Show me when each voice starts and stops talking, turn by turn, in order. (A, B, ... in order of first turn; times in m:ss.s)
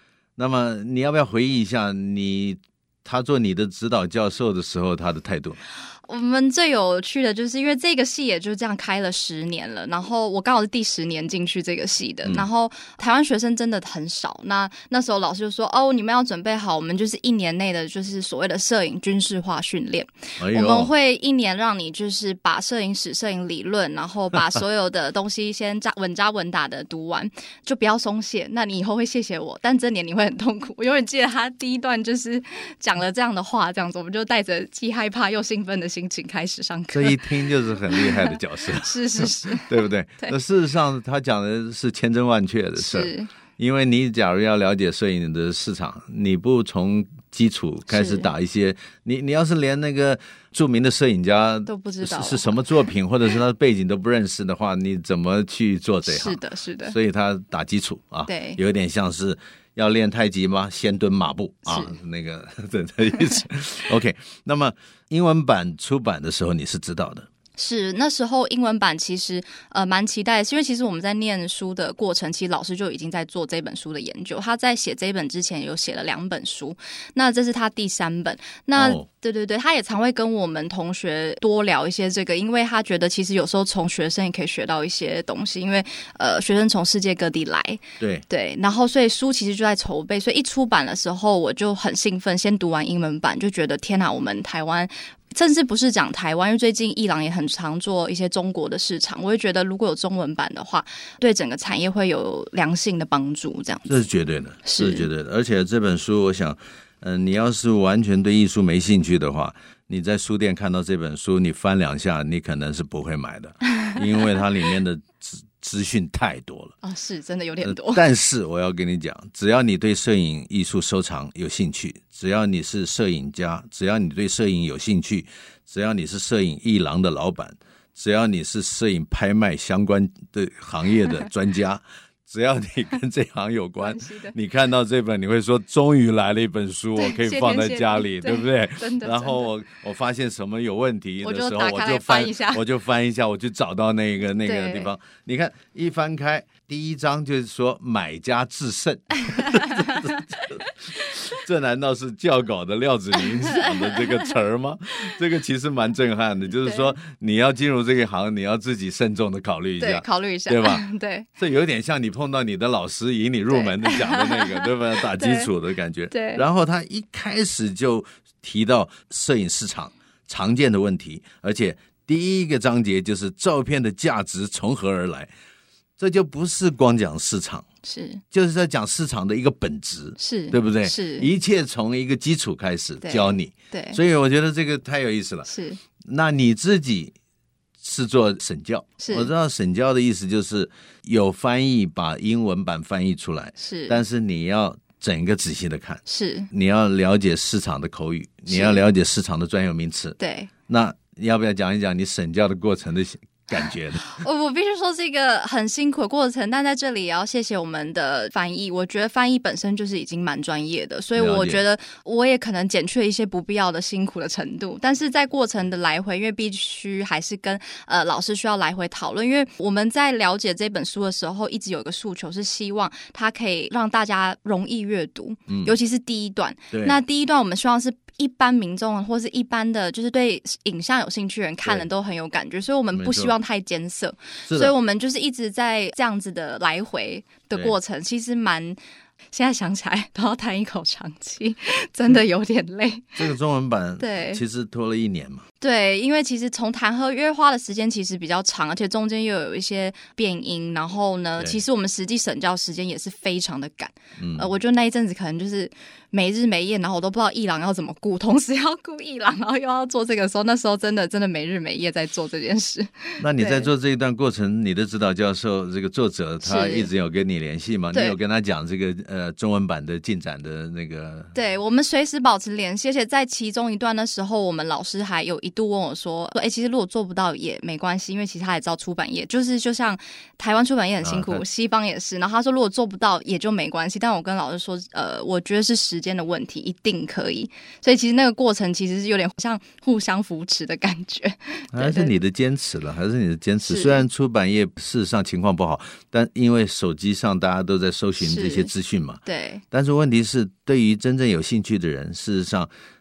0:00.4-0:05.6 A
0:05.9-0:40.3 B
0:20.4-0:20.9 A
0:36.9-1:07.3 A
0:42.8-0:43.3 B
0:47.9-0:48.3 B
0:51.6-0:52.6 B
0:56.0-0:57.0 B
0:58.3-0:58.6 B
1:01.6-1:02.0 B
1:07.6-1:44.1 B
1:18.7-1:19.0 A
1:43.9-1:56.7 A
1:44.6-1:45.1 B
1:56.8-1:58.0 B
1:57.6-2:40.8 A
2:13.8-2:14.3 B
2:17.0-2:19.5 B
2:21.2-2:22.6 B
2:24.4-2:24.9 B
2:29.3-2:30.2 B
2:33.4-2:34.2 B
2:36.6-2:36.9 B
2:39.8-2:41.3 B
2:41.4-2:55.3 A
2:43.5-2:45.5 B
2:46.1-2:46.4 B
2:56.0-2:57.6 A
2:57.8-2:58.2 B
2:58.3-3:05.5 A
3:00.2-3:01.3 B
3:03.0-3:04.0 B
3:05.5-3:05.8 B
3:06.0-3:07.1 A
3:07.8-3:20.2 A
3:09.0-3:09.3 B
3:13.6-3:14.0 B
3:16.1-3:16.5 B
3:18.5-3:18.8 B
3:20.2-3:20.5 B
3:20.7-3:24.1 A
3:24.0-3:58.8 B
3:31.2-3:31.6 A
3:45.5-3:45.7 A
3:46.7-3:47.0 A
3:52.9-3:53.3 A
3:54.4-3:54.7 A
3:59.3-4:03.2 B
4:03.2-4:05.4 A
4:04.0-4:04.4 B
4:05.6-4:23.7 B
4:14.2-4:14.5 A
4:23.2-4:31.3 A
4:26.4-4:26.9 B
4:31.3-4:52.1 B
4:41.0-4:41.4 A
4:51.7-5:02.7 A
4:53.6-4:54.0 B
4:58.2-4:58.7 B
4:59.2-4:59.6 B